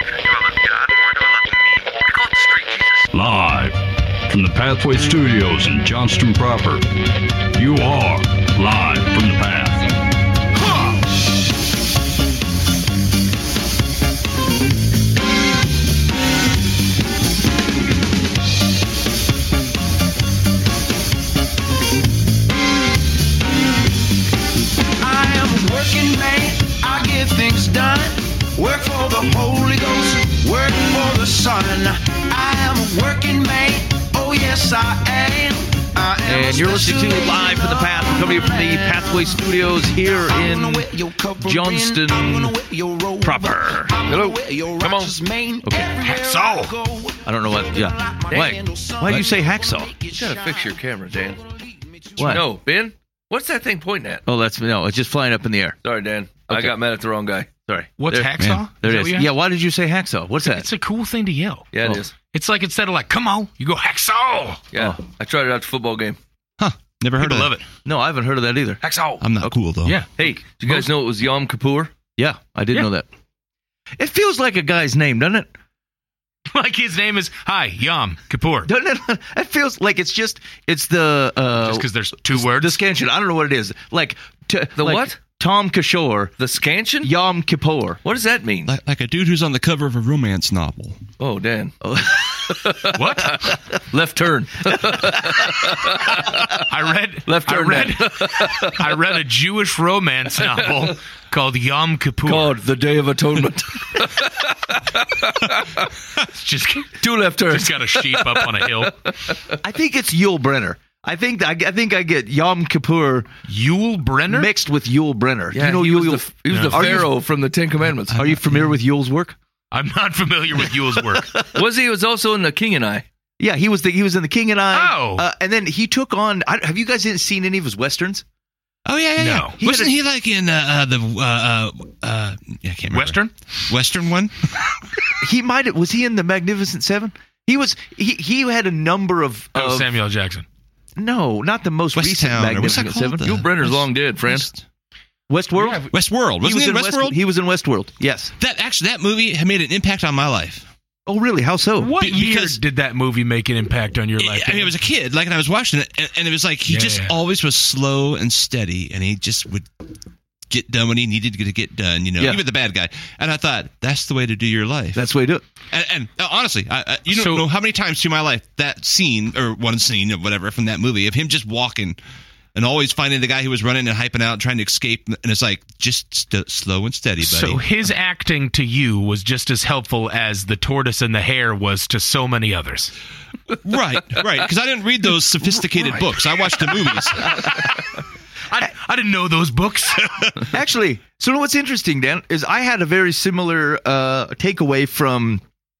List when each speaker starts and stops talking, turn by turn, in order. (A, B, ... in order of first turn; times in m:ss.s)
0:00.5-0:02.8 A
0:03.1-0:06.9 B
0:07.5-0:09.9 B
0:25.0-0:52.4 C
0:36.2-0:40.9 D
0:41.4-0:42.5 D
0:43.2-0:43.9 D
0:44.0-0:45.1 E
0:46.0-0:46.7 F
0:47.2-0:49.9 D
0:48.3-0:48.6 E
0:50.1-0:51.4 E
0:52.2-0:52.4 D
0:52.2-0:54.2 E
0:54.3-0:55.8 D
0:55.8-0:57.5 E
0:56.5-0:56.7 D
0:57.7-1:00.7 D
0:58.0-0:59.3 F
0:58.4-0:58.6 A
1:00.4-1:01.7 F
1:01.7-1:02.1 E
1:02.3-1:04.6 F
1:04.7-1:06.2 E
1:06.6-1:07.5 A
1:07.2-1:07.6 F
1:07.8-1:08.8 D
1:08.8-1:09.2 E
1:09.2-1:10.0 A
1:10.2-1:10.6 D
1:10.2-1:11.9 E
1:12.2-1:13.0 D
1:14.0-1:15.5 D
1:16.5-1:18.7 F
1:18.6-1:26.4 D
1:21.6-1:22.8 F
1:24.8-1:25.2 E
1:26.4-1:27.1 E
1:27.0-1:28.0 D
1:28.0-1:28.7 E
1:28.6-1:31.0 A
1:31.2-1:36.6 E
1:31.8-1:32.6 D
1:32.9-1:33.5 F
1:34.9-1:35.4 D
1:36.2-1:42.5 F
1:37.3-1:39.0 E
1:42.2-1:45.9 E
1:46.2-1:49.0 F
1:47.0-1:49.6 E
1:49.6-1:53.3 D
1:53.4-1:54.5 F
1:54.3-1:57.1 D
1:55.5-1:58.2 E
1:56.5-1:57.0 A
1:56.5-1:56.9 F
1:58.1-1:58.4 A
1:58.1-1:59.4 D
1:59.7-2:01.4 F
2:01.0-2:01.6 D
2:01.5-2:03.0 E
2:03.4-2:08.2 D
2:04.7-2:05.2 F
2:08.8-2:14.5 A
2:09.2-2:09.6 F
2:09.6-2:09.9 D
2:12.9-2:13.3 F
2:15.2-2:19.9 D
2:19.5-2:20.4 F
2:21.0-2:23.2 D
2:21.9-2:24.6 A
2:22.8-2:24.5 E
2:25.3-2:25.9 D
2:25.6-2:25.9 F
2:25.9-2:27.2 A
2:26.4-2:28.3 D
2:28.4-2:30.7 A
2:31.0-2:32.4 D
2:31.8-2:34.7 F
2:34.2-2:39.6 A
2:36.7-2:37.1 F
2:40.5-2:45.0 A
2:44.9-2:45.4 D
2:45.7-2:52.0 A
2:47.1-2:47.4 F
2:52.5-2:57.6 A
2:57.2-3:02.9 F
3:03.6-3:07.5 A
3:07.2-3:07.8 F
3:08.5-3:10.4 F
3:10.5-3:15.4 D